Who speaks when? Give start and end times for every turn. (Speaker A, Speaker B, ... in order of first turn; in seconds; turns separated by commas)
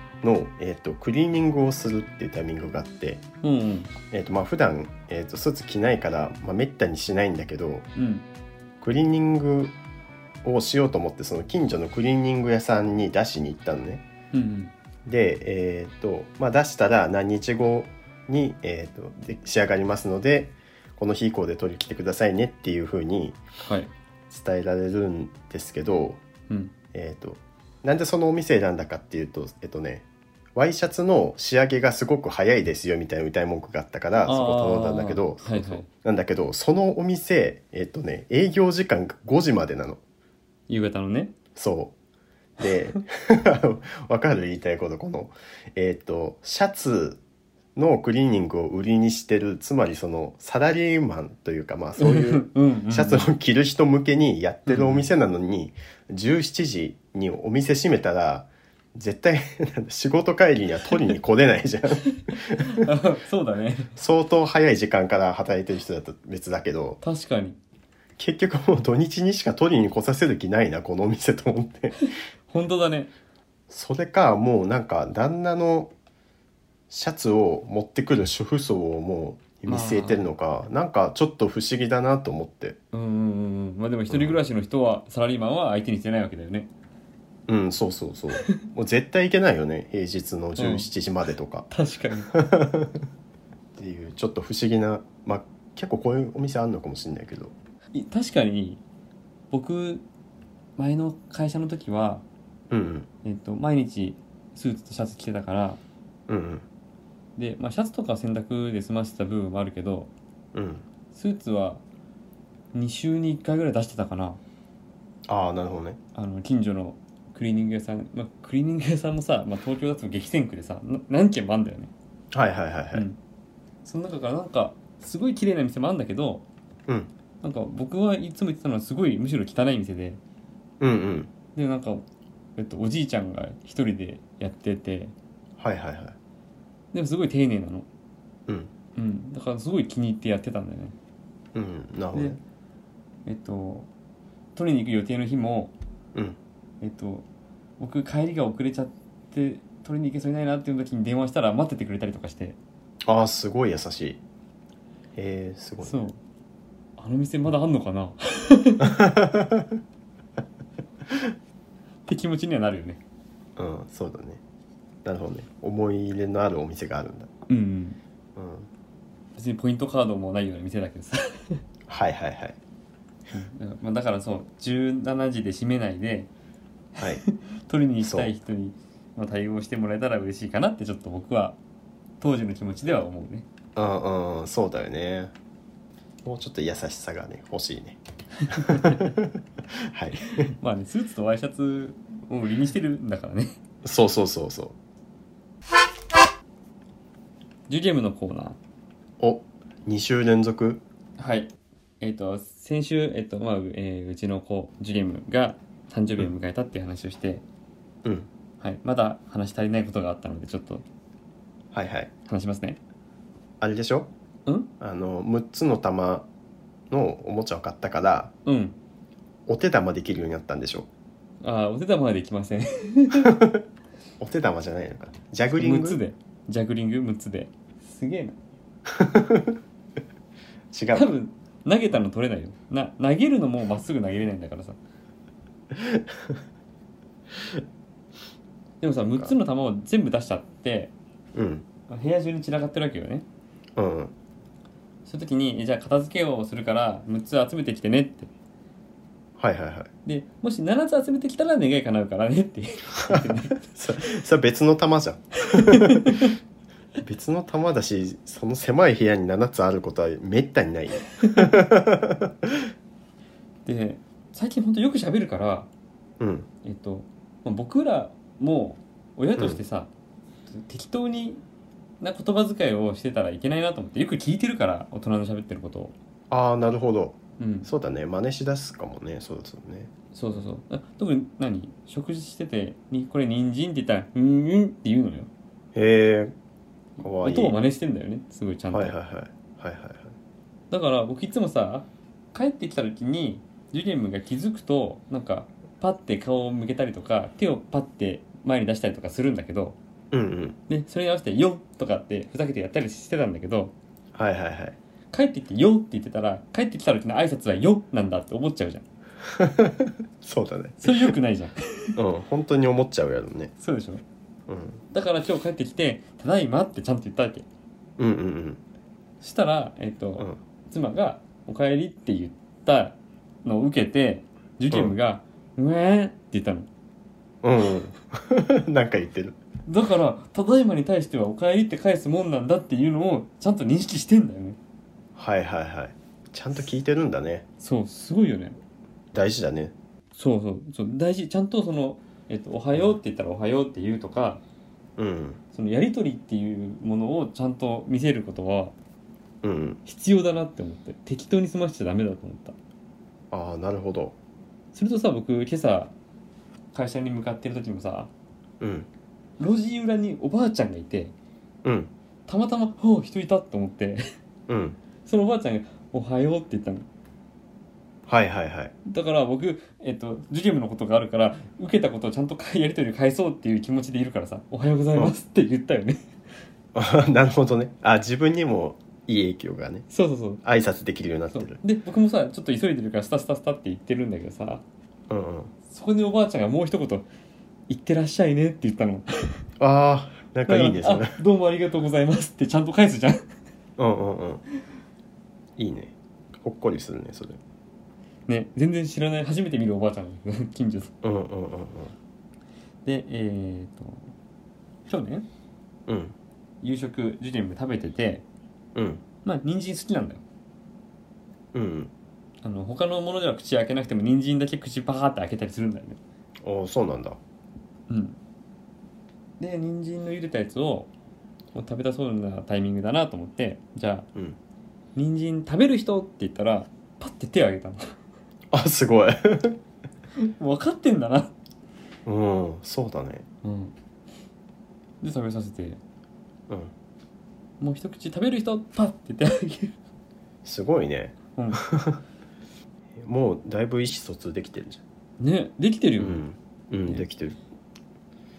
Speaker A: 0.2-3.2, Speaker B: 3.4-3.9, Speaker A: 4.1-7.9, Speaker B: 8.0-8.2, Speaker A: 8.8-9.8, Speaker A: 10.4-14.0, Speaker B: 14.3-14.7, Speaker A: 15.1-23.4, Speaker B: 23.6-23.9, Speaker A: 24.3-26.2, Speaker A: 26.9-40.0, Speaker B: 34.2-35.9, Speaker B: 40.7-41.3, Speaker A: 41.5-41.9, Speaker A: 42.6-47.2, Speaker A: 47.8-62.9, Speaker B: 52.0-53.3, Speaker B: 54.6-55.1, Speaker B: 62.3-63.9, Speaker A: 64.0-67.0, Speaker B: 67.0-67.6, Speaker A: 68.2-72.0, Speaker B: 72.5-73.1, Speaker A: 73.7-75.9, Speaker A: 76.9-82.8, Speaker B: 79.7-80.3, Speaker B: 82.9-86.7, Speaker A: 84.1-84.4, Speaker A: 87.5-91.7, Speaker B: 90.6-90.9, Speaker B: 91.7-92.3, Speaker A: 92.3-93.0, Speaker A: 93.8-97.5, Speaker B: 97.9-98.8, Speaker B: 99.5-100.0, Speaker B: 100.8-102.2, Speaker A: 102.7-103.1, Speaker B: 103.2-105.8, Speaker A: 106.3-106.6, Speaker B: 107.4-110.1, Speaker A: 110.5-110.8, Speaker B: 111.1-111.8, Speaker B: 112.7-114.4, Speaker A: 115.3-116.0, Speaker B: 116.1-121.9, Speaker A: 122.3-123.0, Speaker B: 123.8-126.4, Speaker B: 127.4-130.2, Speaker A: 130.8-131.3, Speaker B: 131.5-132.0, Speaker B: 132.6-135.1, Speaker A: 135.6-136.2, Speaker B: 136.9-137.9, Speaker B: 138.9-140.9, Speaker A: 141.5-142.4, Speaker B: 143.2-143.9, Speaker B: 144.6-145.7, Speaker B: 146.8-147.2, Speaker B: 147.8-152.6, Speaker A: 153.1-154.2, Speaker A: 155.1-156.0, Speaker B: 155.8-156.2, Speaker B: 157.0-159.0, Speaker A: 158.8-159.8, Speaker A: 161.1-161.3, Speaker B: 162.1-163.0, Speaker A: 163.6-164.4, Speaker A: 165.0-167.3, Speaker B: 167.5-168.0, Speaker A: 168.3-168.7, Speaker B: 169.4-171.6, Speaker A: 171.9-172.6, Speaker B: 173.3-176.3, Speaker B: 176.9-181.6, Speaker A: 178.0-178.3, Speaker B: 182.2-183.4, Speaker A: 183.8-185.3, Speaker A: 186.2-190.5, Speaker B: 188.4-189.0, Speaker B: 190.2-193.6, Speaker A: 193.8-194.8, Speaker B: 197.7-198.6, Speaker A: 199.2-200.8, Speaker B: 201.2-207.4, Speaker B: 208.6-210.8, Speaker A: 211.7-212.1, Speaker B: 212.3-212.8, Speaker A: 213.6-214.1, Speaker B: 214.4-214.7, Speaker A: 214.8-216.3, Speaker A: 216.9-218.3, Speaker B: 218.4-218.8, Speaker A: 219.5-220.9, Speaker B: 221.4-223.4, Speaker A: 223.2-223.6, Speaker A: 224.2-226.0, Speaker B: 225.5-228.4, Speaker A: 228.9-229.6, Speaker A: 230.7-231.1, Speaker B: 230.9-234.8, Speaker A: 235.7-236.4, Speaker B: 238.8-240.9, Speaker A: 241.3-241.7, Speaker B: 241.9-243.2, Speaker A: 243.8-244.1, Speaker B: 245.1-248.3, Speaker A: 249.4-249.9, Speaker B: 250.1-254.1, Speaker A: 253.0-256.3, Speaker B: 255.5-256.3, Speaker A: 257.0-262.6, Speaker B: 261.2-261.5, Speaker B: 263.6-265.7, Speaker A: 266.2-266.5, Speaker B: 266.6-269.9, Speaker B: 270.5-271.4, Speaker B: 272.0-275.9, Speaker A: 276.3-279.9, Speaker B: 277.4-277.7, Speaker B: 280.1-285.3, Speaker A: 285.7-286.3, Speaker B: 287.0-288.9, Speaker A: 287.0-287.6, Speaker A: 288.7-290.1, Speaker B: 290.7-299.8, Speaker A: 300.1-300.6, Speaker B: 300.7-303.7, Speaker A: 304.1-304.8, Speaker B: 305.1-308.8, Speaker A: 309.2-311.1, Speaker B: 310.8-312.0, Speaker A: 311.9-313.5, Speaker B: 313.6-314.0, Speaker A: 314.5-314.8, Speaker B: 314.9-317.4, Speaker A: 318.0-318.6, Speaker B: 319.2-326.7, Speaker A: 327.4-329.4, Speaker B: 329.6-334.6, Speaker A: 335.1-337.4, Speaker B: 337.6-338.6, Speaker A: 339.1-339.7, Speaker B: 340.1-344.4, Speaker A: 345.0-345.4, Speaker B: 345.5-348.7, Speaker A: 349.4-349.8, Speaker B: 349.8-352.6, Speaker A: 353.3-354.1, Speaker B: 354.7-355.9, Speaker B: 356.7-358.1, Speaker A: 358.6-358.9, Speaker B: 359.4-361.1, Speaker A: 361.6-361.9, Speaker B: 362.3-364.0, Speaker A: 364.5-364.8, Speaker B: 365.0-366.9, Speaker A: 368.1-368.7, Speaker B: 368.9-376.0, Speaker A: 376.7-379.9, Speaker B: 379.9-380.4, Speaker A: 380.4-381.6, Speaker B: 381.3-384.6, Speaker A: 385.1-385.5, Speaker B: 385.7-387.1, Speaker B: 387.7-389.1, Speaker A: 389.6-391.2, Speaker B: 390.5-393.2, Speaker A: 393.8-394.4, Speaker A: 395.6-397.4, Speaker B: 398.3-400.9, Speaker A: 401.0-401.9, Speaker B: 402.8-404.1, Speaker B: 404.9-405.3, Speaker A: 405.9-406.1, Speaker B: 406.6-408.2, Speaker A: 408.7-409.0, Speaker B: 409.2-410.2, Speaker A: 411.5-411.9, Speaker B: 412.4-416.0, Speaker A: 416.4-417.2, Speaker B: 417.9-418.2, Speaker B: 419.4-420.9, Speaker B: 421.5-424.1, Speaker B: 424.9-427.9, Speaker A: 428.5-429.6, Speaker B: 430.2-431.3, Speaker A: 432.1-433.2, Speaker B: 433.4-433.7, Speaker B: 435.0-435.8, Speaker B: 437.6-439.7, Speaker A: 440.4-442.0, Speaker B: 441.3-441.6, Speaker A: 442.9-444.8, Speaker B: 445.2-446.2, Speaker A: 446.0-447.4